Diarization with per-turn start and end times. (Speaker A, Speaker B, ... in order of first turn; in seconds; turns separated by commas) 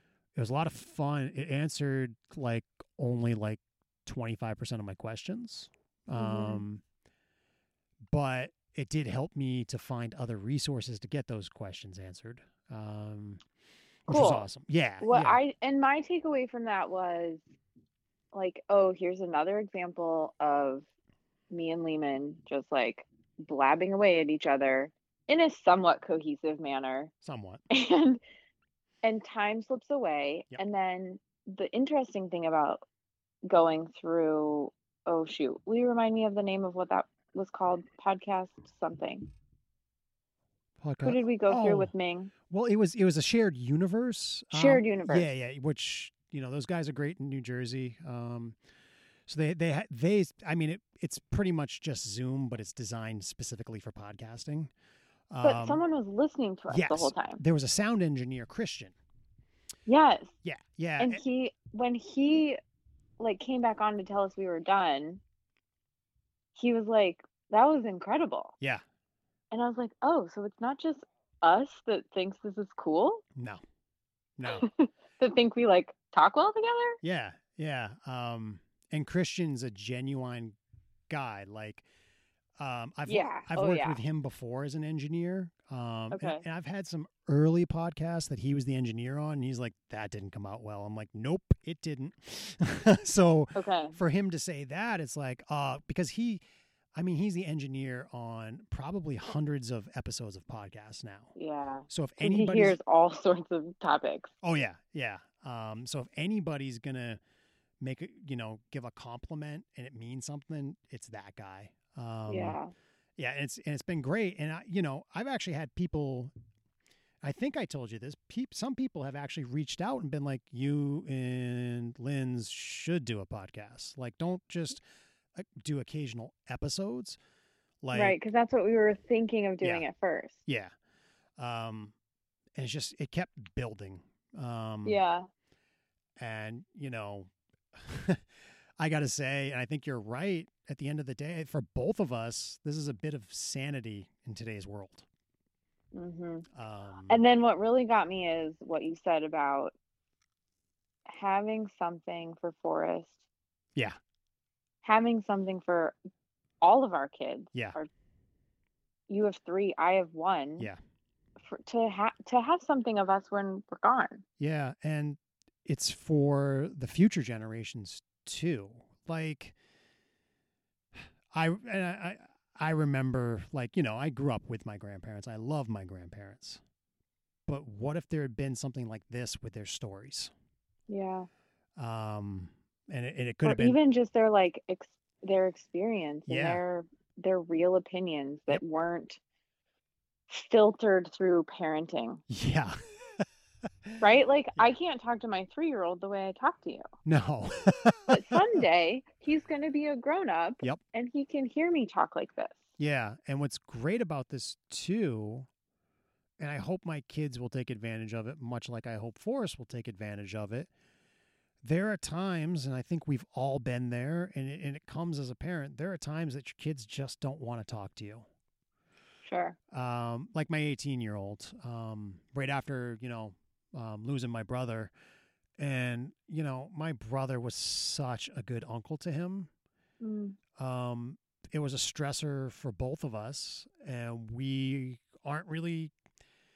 Speaker A: 0.3-6.8, Speaker B: 6.2-6.6, Speaker A: 8.1-13.4, Speaker A: 14.1-15.4, Speaker B: 14.1-14.4, Speaker B: 15.0-17.4, Speaker B: 18.3-20.9, Speaker B: 21.5-27.1, Speaker A: 27.2-27.6, Speaker B: 27.7-28.2, Speaker B: 29.0-32.8, Speaker B: 33.5-39.3, Speaker A: 40.8-41.9, Speaker B: 41.0-42.3, Speaker A: 42.5-48.6, Speaker B: 44.5-45.3, Speaker A: 49.3-54.7, Speaker A: 55.3-55.8, Speaker B: 55.4-57.4, Speaker A: 56.7-58.9, Speaker B: 59.9-60.3, Speaker A: 60.4-61.2, Speaker B: 61.0-62.6, Speaker B: 63.2-65.2, Speaker B: 66.5-68.5, Speaker B: 69.5-73.2, Speaker A: 73.3-73.6, Speaker A: 74.4-74.7, Speaker B: 74.5-77.0, Speaker A: 77.0-80.6, Speaker A: 81.1-81.8, Speaker A: 82.6-96.4, Speaker B: 83.1-84.0, Speaker B: 86.1-86.4, Speaker B: 93.5-94.0, Speaker A: 96.9-101.3, Speaker B: 101.3-104.3, Speaker A: 101.9-102.8, Speaker A: 104.4-107.2, Speaker A: 107.8-112.6, Speaker B: 112.3-112.7, Speaker A: 113.2-116.3, Speaker A: 117.2-124.8, Speaker A: 125.3-127.2, Speaker A: 127.8-128.2, Speaker B: 127.9-130.4, Speaker A: 130.4-130.7, Speaker A: 131.4-131.9, Speaker A: 132.6-135.0, Speaker B: 134.8-135.3, Speaker A: 136.2-138.2, Speaker A: 138.8-145.1, Speaker B: 145.9-146.4, Speaker A: 146.5-147.2, Speaker B: 147.1-149.8, Speaker B: 151.1-153.2, Speaker B: 154.8-156.0, Speaker B: 156.6-157.9, Speaker B: 159.1-160.7, Speaker B: 161.4-164.2, Speaker A: 164.4-169.5, Speaker A: 170.9-176.6, Speaker A: 177.5-180.3, Speaker B: 180.9-181.3, Speaker A: 181.8-183.8, Speaker B: 183.4-189.2, Speaker A: 186.3-186.6, Speaker B: 190.3-192.2, Speaker A: 192.3-193.2, Speaker B: 194.0-196.8, Speaker A: 197.0-198.6, Speaker B: 198.1-202.7, Speaker A: 202.8-205.5, Speaker A: 206.4-210.7, Speaker A: 211.6-218.2, Speaker B: 219.2-219.6, Speaker A: 219.7-224.9, Speaker A: 225.6-229.5, Speaker B: 230.0-230.4, Speaker A: 230.6-235.9